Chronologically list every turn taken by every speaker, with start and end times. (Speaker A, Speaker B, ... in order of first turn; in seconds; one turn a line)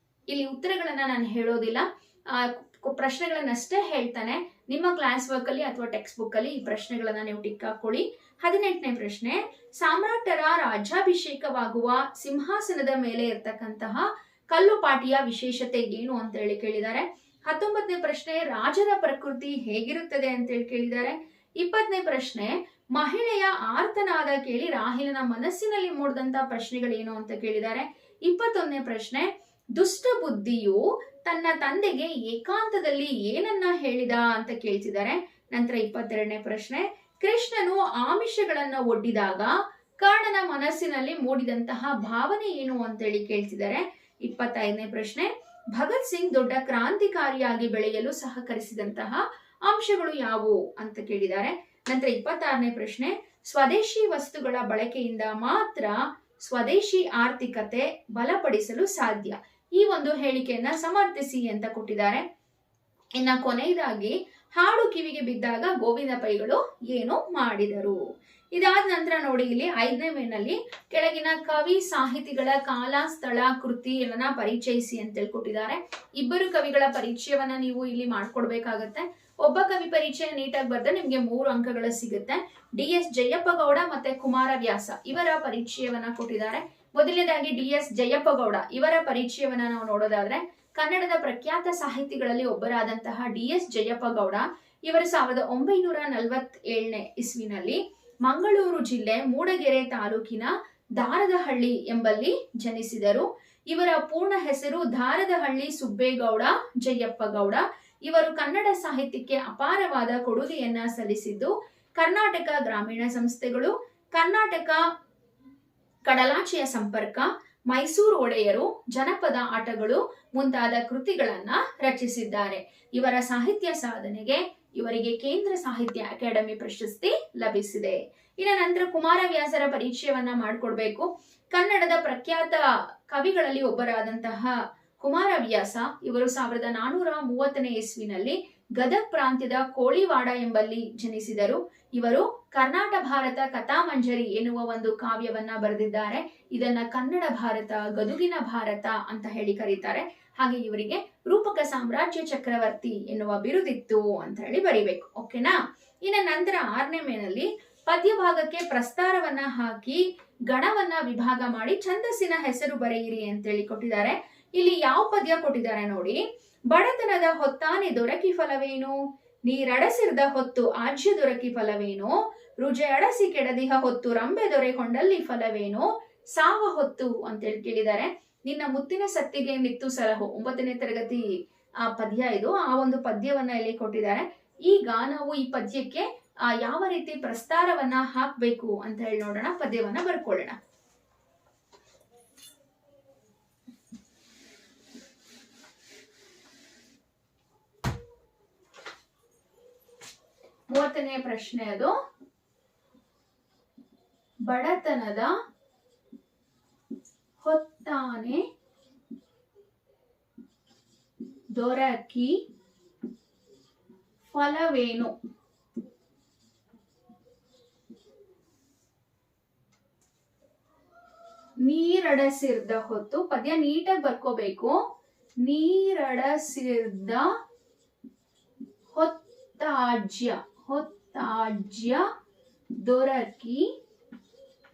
Speaker A: 0.3-62.2
Speaker A: 63.2-68.0
Speaker A: 68.5-114.8
Speaker A: 116.0-181.2
Speaker A: 181.8-190.6
Speaker A: 200.7-201.9
Speaker A: 204.4-205.3
Speaker A: 207.4-208.4
Speaker A: 211.6-212.3
Speaker A: 214.3-215.1
Speaker A: 221.6-224.8
Speaker A: 225.4-227.3
Speaker A: 228.9-232.1
Speaker A: 232.8-233.7